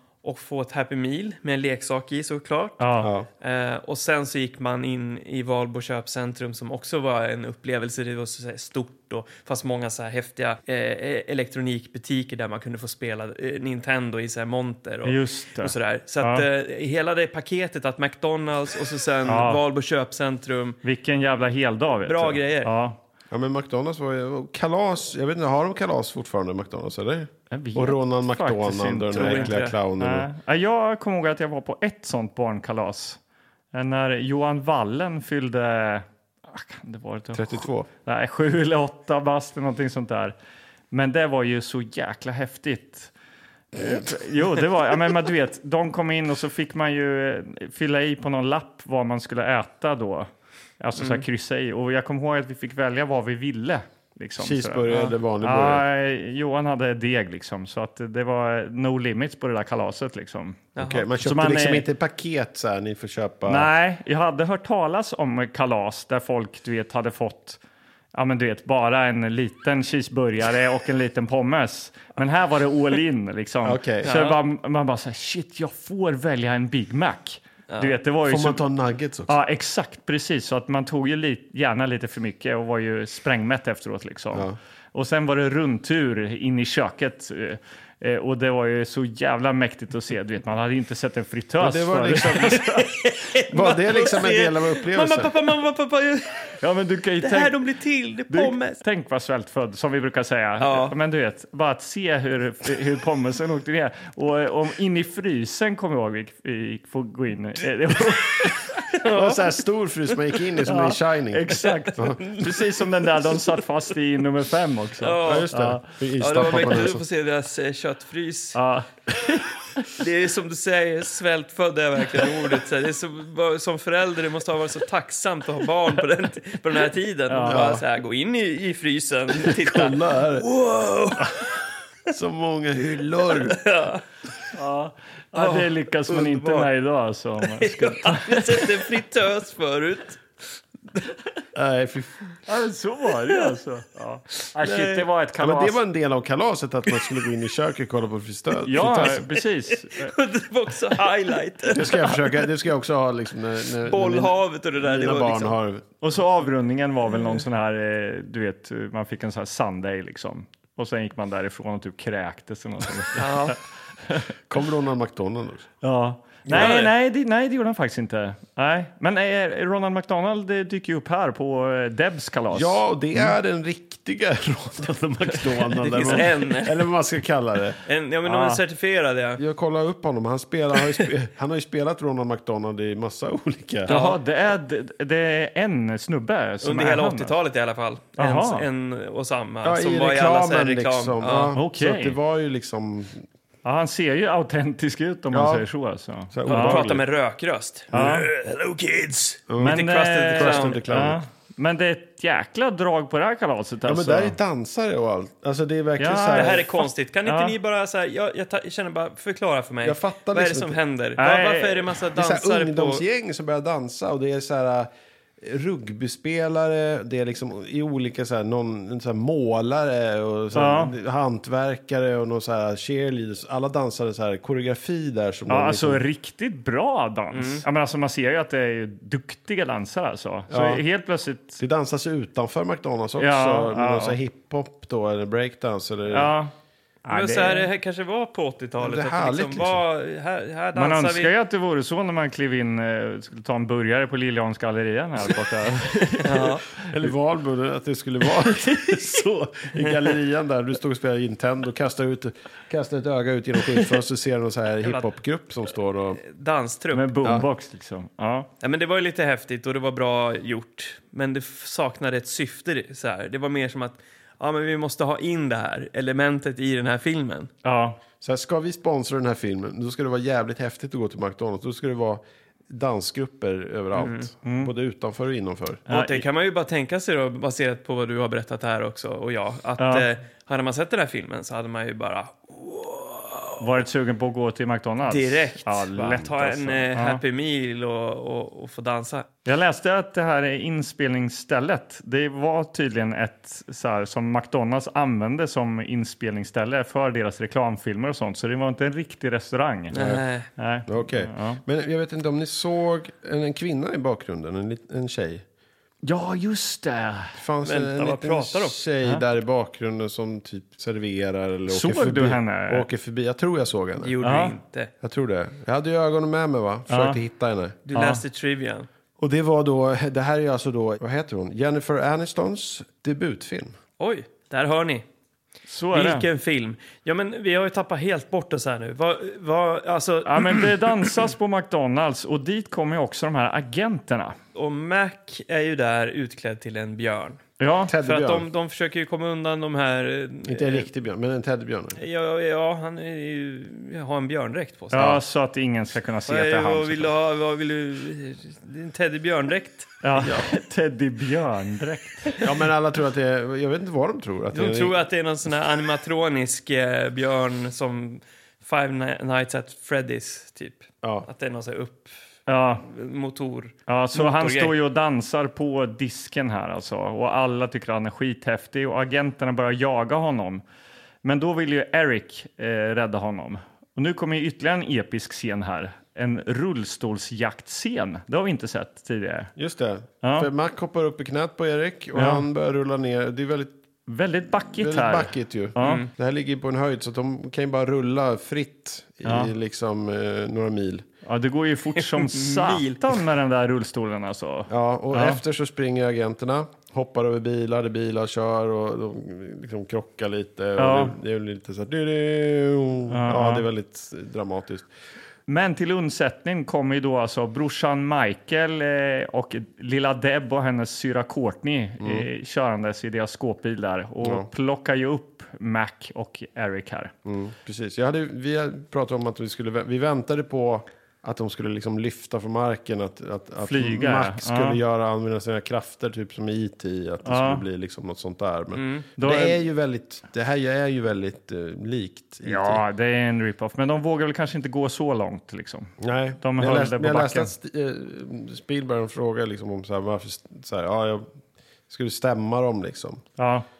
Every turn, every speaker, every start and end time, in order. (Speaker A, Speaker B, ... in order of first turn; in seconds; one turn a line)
Speaker A: 0.2-20.8
Speaker B: 2.8-3.1
Speaker C: 3.0-3.3
Speaker B: 15.0-16.5
Speaker B: 19.3-19.6
Speaker B: 20.8-23.0
Speaker A: 22.0-22.7
Speaker C: 23.3-30.3
Speaker B: 27.5-33.2
Speaker A: 29.1-29.8
Speaker B: 33.7-40.4
Speaker C: 37.3-37.9
Speaker B: 40.9-43.1
Speaker B: 43.8-61.9
Speaker A: 51.0-51.2
Speaker C: 54.4-55.8
Speaker A: 60.8-61.0
Speaker C: 60.8-63.7
Speaker B: 63.5-67.6
Speaker B: 68.1-78.6
Speaker C: 73.6-74.1
Speaker A: 74.0-74.4
Speaker A: 77.7-78.0
Speaker C: 78.3-79.4
Speaker B: 79.3-92.9
Speaker C: 91.6-92.8
Speaker A: 92.4-96.6
Speaker C: 93.5-95.3
Speaker B: 96.6-97.6
Speaker A: 97.2-98.8
Speaker B: 98.3-108.9
Speaker A: 100.6-101.0
Speaker A: 108.4-109.5
Speaker C: 109.1-112.2
Speaker B: 110.6-115.8
Speaker A: 111.5-113.6
Speaker A: 115.0-115.5
Speaker C: 115.2-117.0
Speaker A: 116.2-118.6
Speaker B: 118.5-119.8
Speaker A: 120.0-131.6
Speaker B: 127.3-127.7
Speaker C: 127.5-127.8
Speaker C: 129.4-130.5
Speaker C: 132.1-133.6
Speaker A: 133.3-134.0
Speaker B: 134.5-138.9
Speaker A: 135.3-136.7
Speaker A: 137.4-140.2
Speaker C: 141.6-142.3
Speaker B: 142.5-145.8
Speaker A: 143.2-143.6
Speaker A: 144.4-145.1
Speaker C: 145.4-149.2
Speaker B: 148.6-150.1
Speaker A: 148.9-152.4
Speaker C: 151.7-155.8
Speaker A: 153.8-155.6
Speaker B: 156.0-164.3
Speaker A: 163.2-163.6
Speaker C: 164.5-165.7
Speaker B: 165.8-173.3
Speaker A: 166.5-166.9
Speaker C: 172.5-177.8
Speaker A: 175.8-176.9
Speaker A: 177.9-179.4
Speaker B: 178.3-178.6
Speaker C: 179.4-183.9
Speaker B: 183.9-187.4
Speaker A: 183.9-184.2
Speaker A: 186.6-191.6
Speaker B: 188.2-188.7
Speaker C: 189.6-193.2
Speaker B: 191.6-192.2
Speaker B: 193.6-196.9
Speaker C: 195.3-195.7
Speaker C: 196.3-197.0
Speaker A: 196.5-200.8
Speaker B: 197.9-198.3
Speaker C: 199.5-201.2
Speaker B: 199.6-204.4
Speaker C: 203.9-206.6
Speaker B: 206.0-207.6
Speaker A: 206.3-213.0
Speaker C: 209.8-210.8
Speaker B: 211.2-211.9
Speaker C: 212.2-214.9
Speaker C: 215.4-226.0
Speaker B: 220.5-220.9
Speaker B: 225.5-231.6
Speaker A: 227.3-227.6
Speaker C: 230.5-230.8
Speaker C: 231.6-236.3
Speaker B: 233.2-234.2
Speaker B: 236.1-236.5
Speaker B: 237.1-237.7
Speaker A: 237.1-241.3
Speaker C: 238.8-239.8
Speaker B: 240.8-247.1
Speaker A: 246.2-246.7
Speaker C: 246.9-256.2
Speaker A: 254.8-255.1
Speaker A: 256.2-257.1
Speaker B: 256.9-258.5
Speaker A: 258.6-267.5
Speaker B: 267.6-268.0
Speaker C: 268.2-275.8
Speaker A: 274.0-274.3
Speaker B: 274.4-274.7
Speaker B: 275.9-276.3
Speaker A: 275.9-283.6
Speaker B: 279.8-280.1
Speaker B: 283.6-287.2
Speaker A: 285.1-289.3
Speaker B: 289.5-300.0
Speaker A: 299.9-300.5
Speaker C: 299.9-300.2
Speaker B: 300.6-301.6
Speaker C: 300.9-305.4
Speaker B: 306.0-307.4
Speaker C: 307.4-314.1
Speaker A: 307.6-308.8
Speaker B: 311.7-312.9
Speaker A: 314.0-314.9
Speaker B: 314.2-314.6
Speaker C: 315.0-317.8
Speaker B: 316.9-317.2
Speaker A: 317.9-318.9
Speaker B: 317.9-318.2
Speaker C: 319.2-323.8
Speaker A: 324.0-325.1
Speaker B: 325.7-326.3
Speaker A: 325.9-331.1
Speaker B: 330.2-334.4
Speaker A: 334.6-337.4
Speaker B: 337.6-337.9
Speaker C: 337.9-338.5
Speaker A: 338.0-340.9
Speaker C: 340.5-342.0
Speaker A: 342.0-345.2
Speaker B: 344.9-347.1
Speaker A: 346.3-350.0
Speaker B: 350.0-352.4
Speaker C: 350.2-350.5
Speaker C: 352.4-354.9
Speaker A: 354.5-362.1
Speaker B: 362.5-362.9
Speaker A: 362.8-364.7
Speaker B: 363.9-370.6
Speaker B: 371.2-379.5
Speaker C: 379.6-383.7
Speaker B: 380.2-380.5
Speaker B: 382.1-382.4
Speaker B: 384.1-386.1
Speaker C: 384.7-391.1
Speaker A: 385.8-386.1
Speaker B: 389.2-389.5
Speaker B: 391.2-395.4
Speaker A: 392.0-393.2
Speaker C: 394.7-404.9
Speaker B: 400.8-401.1
Speaker B: 403.1-403.6
Speaker B: 405.5-417.1
Speaker C: 412.0-412.3
Speaker C: 414.2-414.5
Speaker C: 417.2-432.8
Speaker B: 423.6-424.8
Speaker B: 427.2-427.6
Speaker A: 428.7-429.1
Speaker B: 429.2-429.6
Speaker B: 432.4-437.5
Speaker C: 436.0-441.3
Speaker C: 441.9-443.2
Speaker B: 443.4-443.7